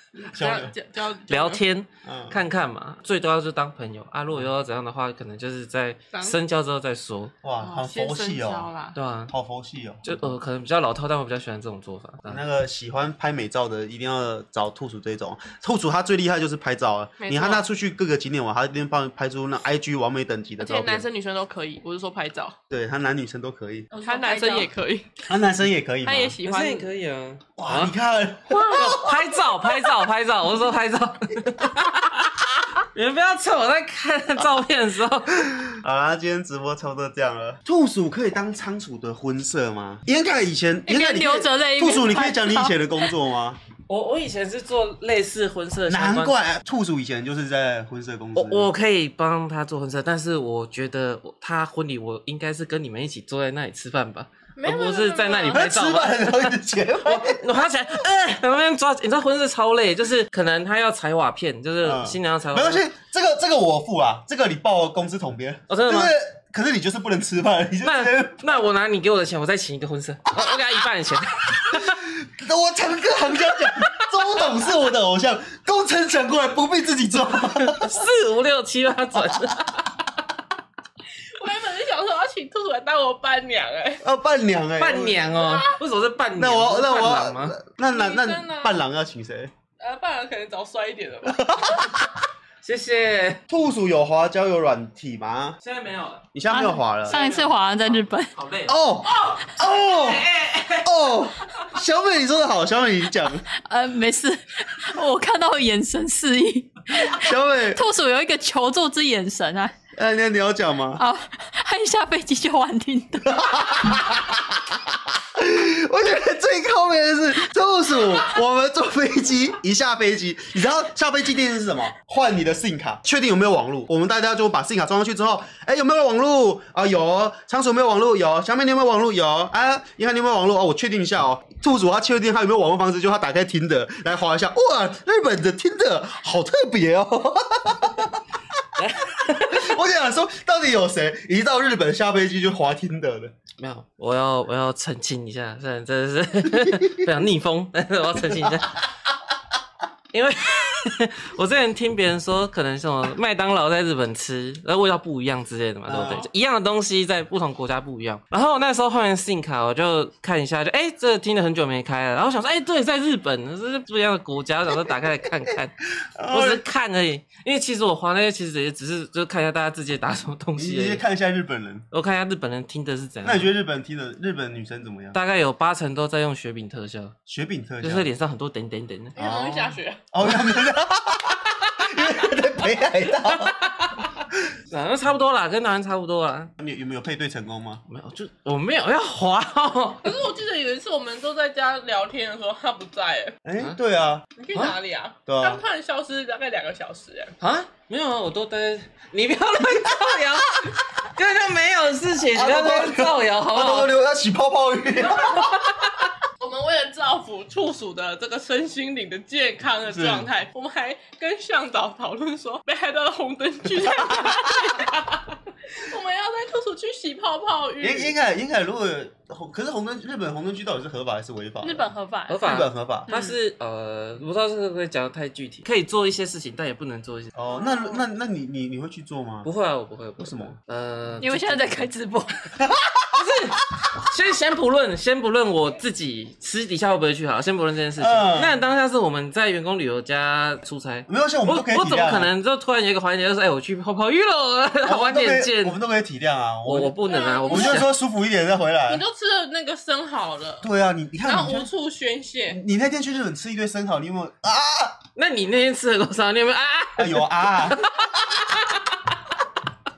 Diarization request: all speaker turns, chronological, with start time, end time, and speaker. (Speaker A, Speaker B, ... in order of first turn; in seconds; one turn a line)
Speaker A: 0.2-1.6
Speaker B: 0.3-0.7
Speaker C: 1.3-7.3
Speaker B: 2.0-2.4
Speaker A: 6.1-6.4
Speaker B: 7.4-8.7
Speaker A: 7.6-9.0
Speaker C: 8.9-9.3
Speaker B: 9.3-10.1
Speaker C: 10.0-12.4
Speaker B: 12.3-21.1
Speaker A: 17.2-17.6
Speaker A: 20.6-22.6
Speaker B: 22.7-23.9
Speaker D: 23.9-24.7
Speaker A: 24.0-25.1
Speaker B: 25.3-26.4
Speaker A: 26.1-26.9
Speaker C: 26.4-27.9
Speaker B: 27.6-29.3
Speaker A: 28.6-28.9
Speaker C: 28.7-35.5
Speaker B: 35.5-43.6
Speaker D: 40.9-43.1
Speaker C: 43.9-46.4
Speaker B: 45.9-48.7
Speaker C: 48.4-62.8
Speaker A: 54.6-55.6
Speaker B: 55.5-57.6
Speaker B: 61.8-68.6
Speaker C: 65.7-66.1
Speaker C: 67.8-72.1
Speaker B: 72.0-78.0
Speaker C: 77.4-80.0
Speaker B: 79.2-79.7
Speaker A: 81.3-84.0
Speaker B: 84.0-85.3
Speaker C: 84.8-87.6
Speaker A: 85.3-85.8
Speaker B: 86.4-89.5
Speaker A: 87.9-88.8
Speaker A: 89.8-91.7
Speaker B: 91.3-92.0
Speaker C: 92.6-93.4
Speaker B: 93.5-95.6
Speaker C: 95.6-96.3
Speaker B: 96.3-97.2
Speaker D: 96.5-98.3
Speaker C: 97.1-101.6
Speaker B: 98.7-100.3
Speaker B: 100.8-103.5
Speaker D: 103.5-109.7
Speaker B: 107.1-107.9
Speaker B: 110.0-111.0
Speaker D: 111.0-113.7
Speaker B: 113.3-138.2
Speaker C: 138.8-139.7
Speaker B: 139.3-143.3
Speaker C: 143.6-148.9
Speaker C: 150.1-165.8
Speaker B: 155.9-156.3
Speaker B: 166.2-166.6
Speaker C: 166.3-171.0
Speaker B: 170.6-171.9
Speaker C: 171.9-173.5
Speaker B: 173.2-175.2
Speaker C: 175.1-177.2
Speaker B: 177.3-178.1
Speaker C: 177.8-179.2
Speaker A: 179.2-180.0
Speaker B: 179.2-183.7
Speaker C: 183.3-184.1
Speaker C: 184.7-186.5
Speaker B: 186.6-187.8
Speaker C: 187.9-190.2
Speaker A: 190.0-193.4
Speaker B: 193.4-194.3
Speaker A: 194.4-197.3
Speaker B: 195.3-195.6
Speaker C: 197.4-203.9
Speaker B: 199.8-200.7
Speaker B: 202.3-205.6
Speaker A: 206.4-218.1
Speaker B: 209.9-210.3
Speaker B: 213.8-214.7
Speaker B: 217.8-221.9
Speaker D: 221.6-223.4
Speaker C: 222.3-227.3
Speaker B: 222.4-223.1
Speaker B: 227.3-229.5
Speaker C: 229.4-231.8
Speaker B: 230.2-230.5
Speaker D: 231.2-232.5
Speaker B: 232.6-233.0
Speaker C: 233.1-245.8
Speaker B: 238.0-238.5
Speaker B: 241.1-242.3
Speaker B: 244.8-249.0
Speaker C: 246.7-247.9
Speaker A: 247.1-247.9
Speaker A: 248.9-250.7
Speaker B: 250.6-251.7
Speaker A: 251.2-252.6
Speaker B: 252.5-255.0
Speaker C: 255.2-258.9
Speaker B: 257.0-258.0